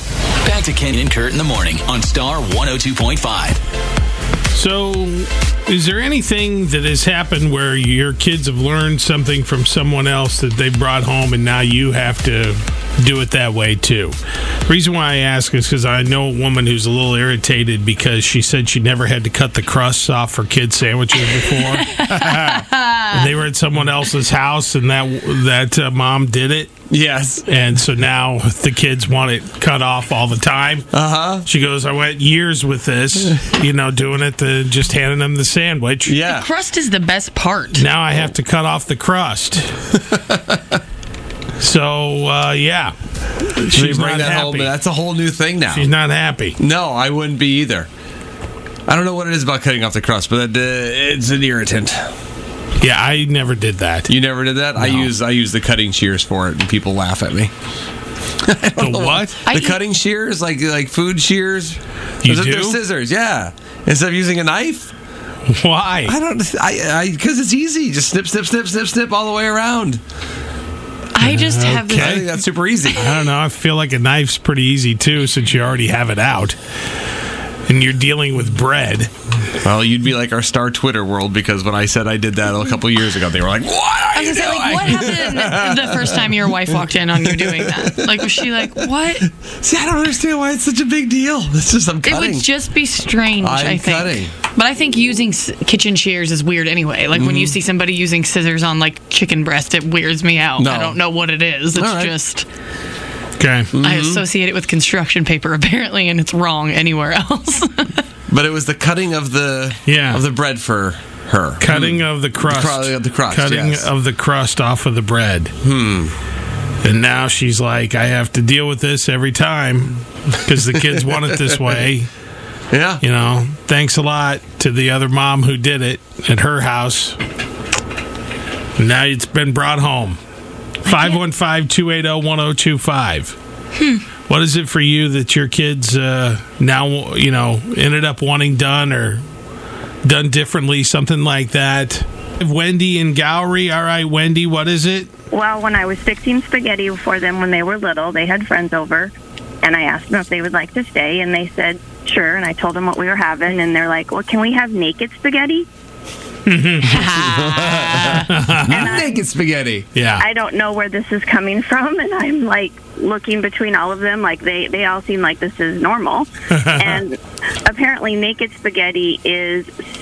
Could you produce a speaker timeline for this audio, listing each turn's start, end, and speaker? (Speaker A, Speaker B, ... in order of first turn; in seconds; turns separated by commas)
Speaker A: 0.4-3.6, Speaker B: 4.5-26.7, Speaker C: 22.0-23.0, Speaker D: 26.9-27.4, Speaker B: 27.5-30.9, Speaker D: 30.9-31.4, Speaker B: 31.4-36.1, Speaker D: 36.1-36.5, Speaker C: 36.3-37.9, Speaker B: 37.7-39.8, Speaker B: 41.6-44.7, Speaker D: 43.7-45.9, Speaker B: 45.7-46.6, Speaker D: 46.6-47.9, Speaker D: 48.9-52.1, Speaker B: 52.8-54.1, Speaker D: 54.1-57.5, Speaker B: 54.8-55.1, Speaker D: 58.5-64.9, Speaker B: 58.8-59.4, Speaker C: 59.5-59.8, Speaker B: 62.2-62.8, Speaker B: 65.5-66.1, Speaker D: 66.1-70.0, Speaker C: 71.1-72.4, Speaker B: 71.2-72.2, Speaker D: 71.9-73.1, Speaker B: 73.0-76.6, Speaker B: 77.7-79.1, Speaker D: 79.6-86.4, Speaker C: 84.1-89.3, Speaker D: 87.2-88.8, Speaker D: 89.6-92.5, Speaker C: 92.0-102.5, Speaker D: 93.4-94.3, Speaker D: 97.2-97.6, Speaker D: 100.6-101.0, Speaker D: 101.7-102.2, Speaker B: 103.4-103.8, Speaker D: 103.7-104.2, Speaker C: 103.8-108.0, Speaker D: 108.3-113.9, Speaker B: 109.9-110.2, Speaker B: 111.6-115.5, Speaker D: 115.6-116.2, Speaker B: 116.8-122.1, Speaker D: 122.7-123.0, Speaker B: 123.0-127.2, Speaker B: 128.8-130.2, Speaker B: 130.8-133.4, Speaker C: 130.9-131.2, Speaker B: 134.3-139.2, Speaker B: 140.1-145.1, Speaker E: 145.3-155.7, Speaker B: 156.5-157.1, Speaker C: 156.8-158.3, Speaker D: 157.1-159.9, Speaker B: 158.3-158.9, Speaker E: 158.7-159.2, Speaker B: 159.9-160.2, Speaker E: 160.2-169.7, Speaker B: 166.5-167.0